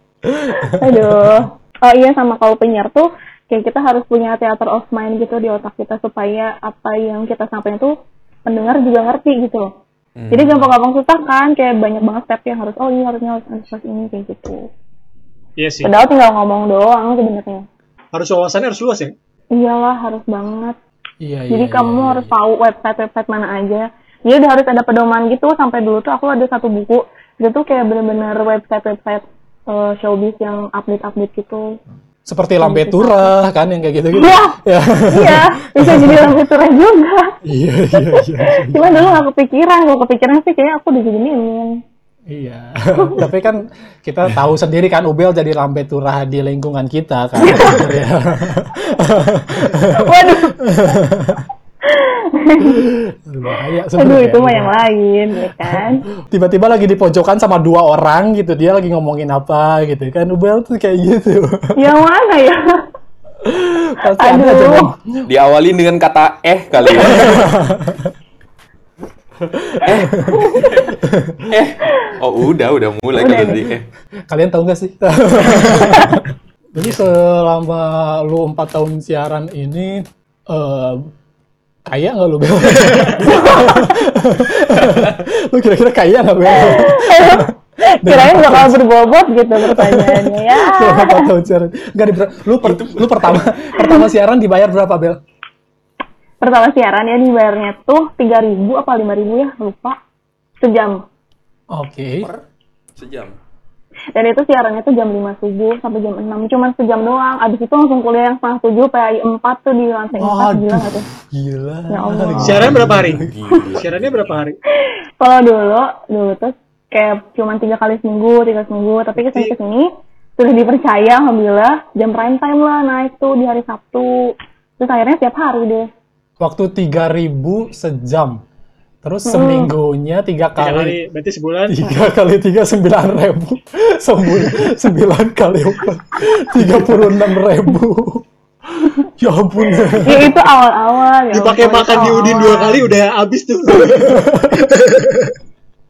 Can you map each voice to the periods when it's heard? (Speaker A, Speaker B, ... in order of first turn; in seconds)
Speaker A: 0.2-1.4, 21.2-22.3, 32.2-36.4, 37.4-39.2, 42.3-51.4, 52.6-54.8, 55.6-61.8, 63.4-65.2, 67.0-68.1, 69.6-71.5, 74.3-81.1, 81.9-87.5, 88.0-88.8, 89.6-95.2, 101.7-102.3, 110.2-113.3, 126.4-128.4, 129.0-131.0, 131.7-138.2, 138.8-140.4, 144.1-144.7
Speaker B: 0.7-7.9, 8.4-9.7, 10.3-14.7, 15.8-17.6, 19.5-20.8, 21.5-31.8, 32.6-33.3, 34.1-37.4, 37.9-41.8, 43.0-43.2, 47.4-47.8, 49.8-50.8, 51.9-52.8, 54.0-56.0, 61.8-62.8, 64.2-64.9, 70.3-70.7, 73.2-73.6, 75.9-76.2, 83.2-83.9, 86.5-91.3, 96.4-100.0, 100.6-101.0, 104.1-111.1, 111.9-112.7, 115.2-125.9, 129.3-129.7, 140.0-142.8
Speaker C: 10.2-10.7, 65.2-67.5, 69.8-70.9, 71.5-73.8, 84.8-85.1, 92.6-93.5, 103.0-103.3, 112.5-114.4
Speaker D: 15.6-15.9, 18.1-19.1, 82.8-83.2, 112.4-113.2, 113.8-114.6, 119.2-119.5, 130.6-131.8, 141.3-145.3